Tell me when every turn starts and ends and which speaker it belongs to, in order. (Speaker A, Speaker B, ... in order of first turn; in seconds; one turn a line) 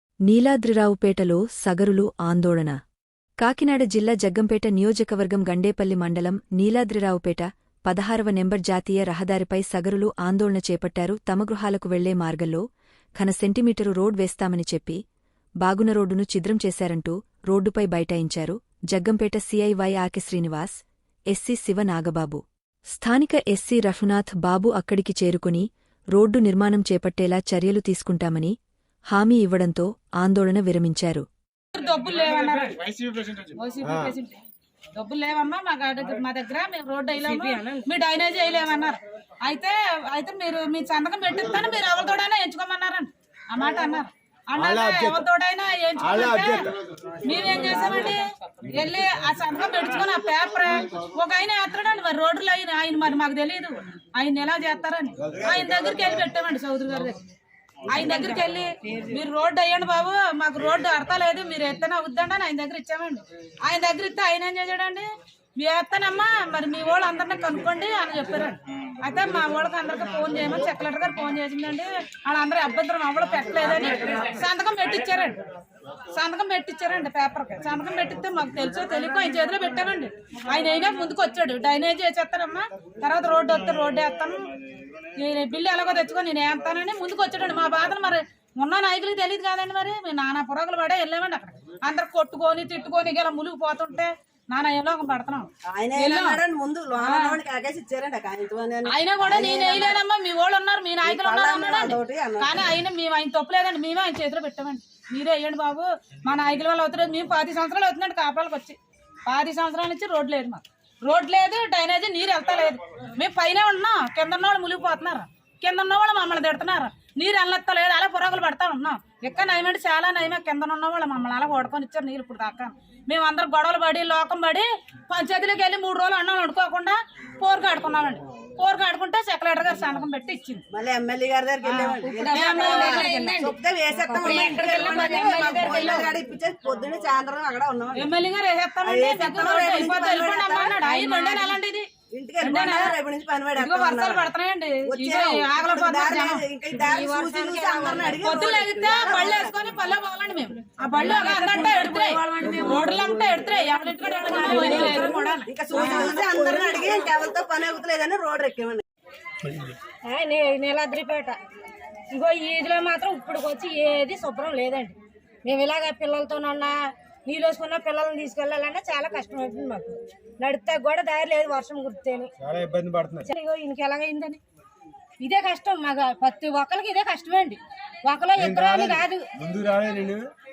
Speaker A: 0.2-2.8
Speaker A: 3.4-12.6
Speaker A: 13.2-15.0
Speaker A: 15.6-28.6
Speaker A: 29.1-31.2
Speaker B: 31.7-34.4
Speaker C: 33.9-34.1
Speaker B: 34.9-46.7
Speaker C: 44.6-45.2
Speaker C: 46.0-46.7
Speaker B: 47.2-57.2
Speaker B: 57.9-75.4
Speaker B: 76.1-84.5
Speaker B: 85.2-96.4
Speaker D: 95.7-100.0
Speaker B: 97.0-97.4
Speaker B: 98.8-130.6
Speaker D: 101.0-102.7
Speaker D: 130.7-138.1
Speaker B: 131.6-133.3
Speaker E: 132.1-136.1
Speaker B: 134.7-135.8
Speaker B: 137.9-142.9
Speaker D: 138.8-140.8
Speaker E: 140.8-141.5
Speaker D: 142.1-144.2
Speaker B: 143.6-146.4
Speaker D: 144.8-149.5
Speaker E: 146.7-148.2
Speaker B: 148.2-156.1
Speaker D: 150.9-152.9
Speaker E: 151.0-152.8
Speaker E: 154.1-155.2
Speaker D: 154.2-158.8
Speaker E: 155.8-156.9
Speaker E: 160.1-161.4
Speaker E: 162.1-166.7
Speaker E: 167.2-172.3
Speaker C: 172.4-173.3
Speaker E: 173.2-174.4
Speaker E: 175.2-179.3
Speaker C: 178.4-180.3